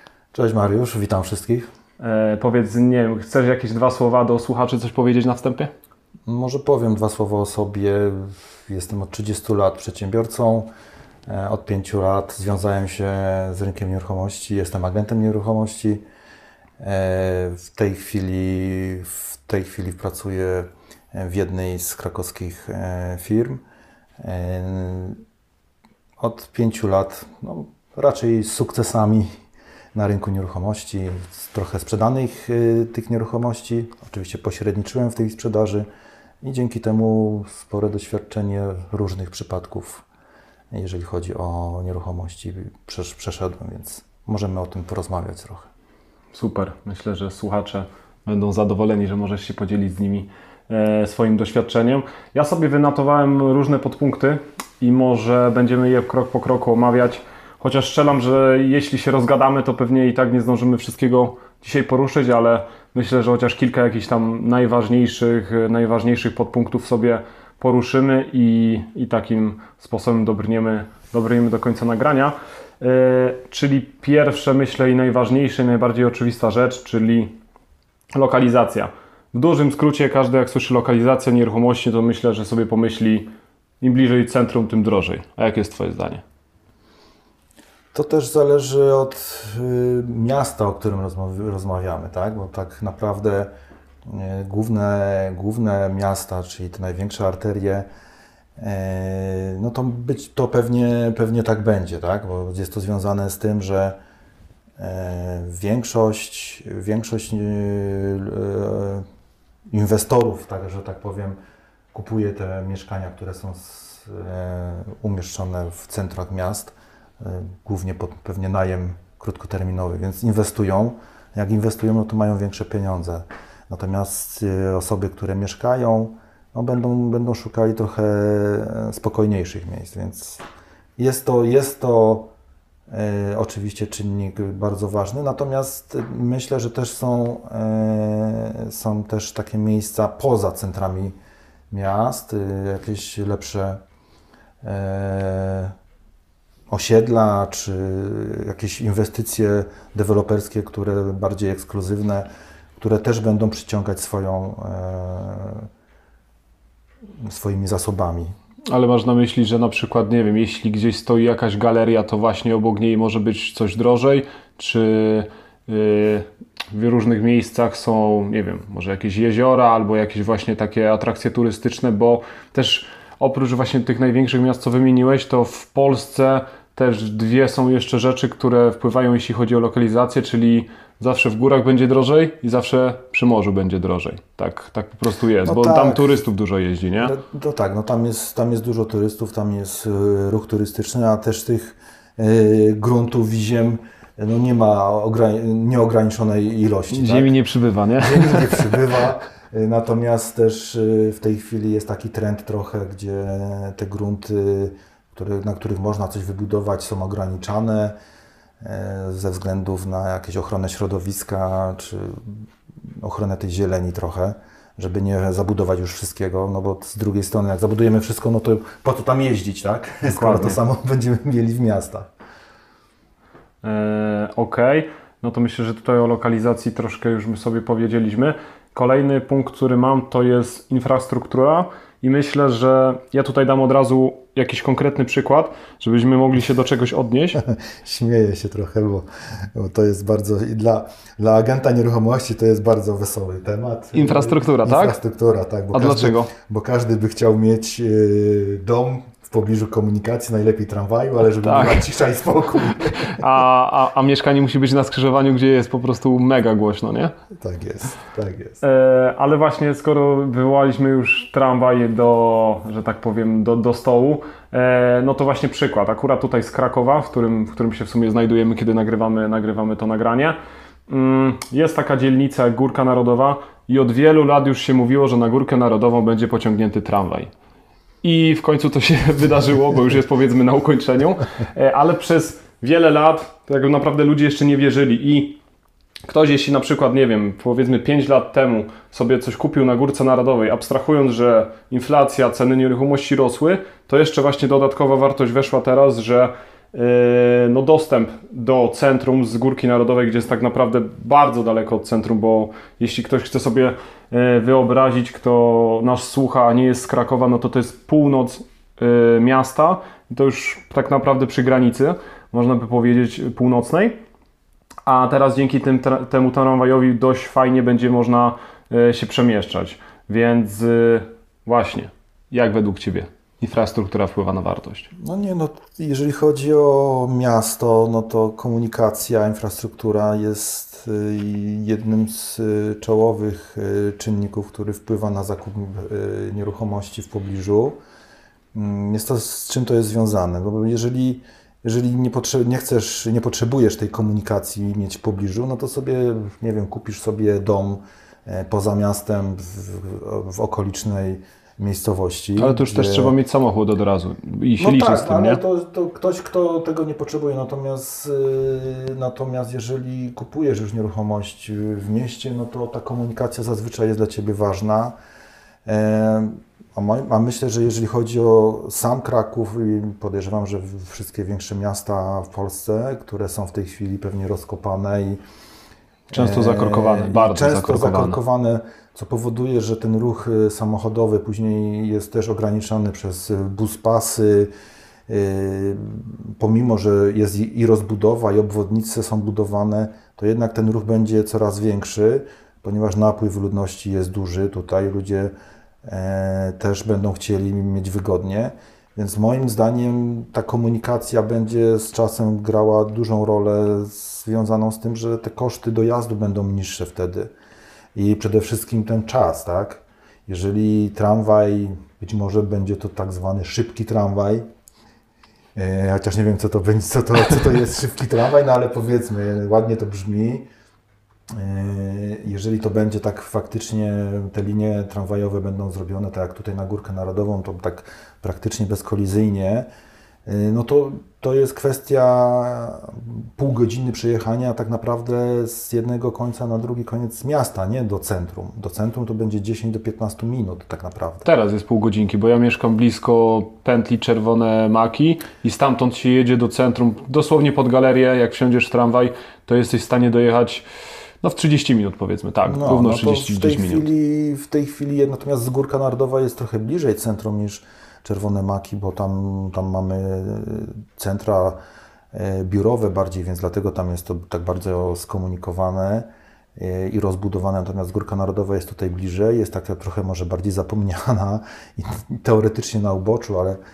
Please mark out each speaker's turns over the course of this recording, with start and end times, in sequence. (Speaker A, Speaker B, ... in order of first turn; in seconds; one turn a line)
Speaker A: 0.3-1.7
Speaker B: 2.0-5.7
Speaker A: 6.3-10.7
Speaker A: 11.3-16.0
Speaker A: 16.8-23.6
Speaker A: 24.2-25.2
Speaker A: 26.2-29.3
Speaker A: 29.9-35.9
Speaker A: 36.4-40.0
Speaker A: 40.7-45.7
Speaker B: 46.3-77.3
Speaker B: 78.1-83.3
Speaker B: 83.8-86.2
Speaker A: 87.9-93.5
Speaker A: 94.0-97.9
Speaker A: 98.6-104.0
Speaker A: 104.8-109.0
Speaker A: 109.7-111.4
Speaker A: 111.9-130.4
Speaker A: 131.0-132.3
Speaker A: 132.9-141.1
Speaker A: 141.7-143.8
Speaker A: 144.6-145.7
Speaker A: 146.7-152.3
Speaker A: 152.8-155.7
Speaker A: 157.2-158.3
Speaker B: 158.7-187.1
Speaker A: 185.4-186.2
Speaker A: 187.0-197.3
Speaker B: 196.9-198.8
Speaker A: 198.0-207.9
Speaker A: 208.6-222.1
Speaker B: 220.1-220.6
Speaker B: 223.6-237.4
Speaker A: 237.4-253.2
Speaker B: 243.9-244.9
Speaker B: 245.7-246.3
Speaker B: 251.4-251.8
Speaker B: 252.9-257.1
Speaker A: 257.3-258.6
Speaker B: 258.6-277.3
Speaker B: 278.0-285.4
Speaker B: 286.1-314.0
Speaker B: 314.9-324.9
Speaker A: 324.9-337.8
Speaker A: 338.5-353.1
Speaker B: 352.4-355.4
Speaker A: 354.6-364.9
Speaker A: 365.6-375.2
Speaker B: 376.1-378.2
Speaker A: 376.1-384.5
Speaker A: 385.1-395.3
Speaker A: 395.9-407.3
Speaker A: 407.9-414.4
Speaker A: 415.6-420.5
Speaker A: 421.3-429.7
Speaker A: 430.2-441.3
Speaker B: 441.2-450.6
Speaker B: 451.2-453.9
Speaker A: 452.4-461.6
Speaker A: 462.1-473.6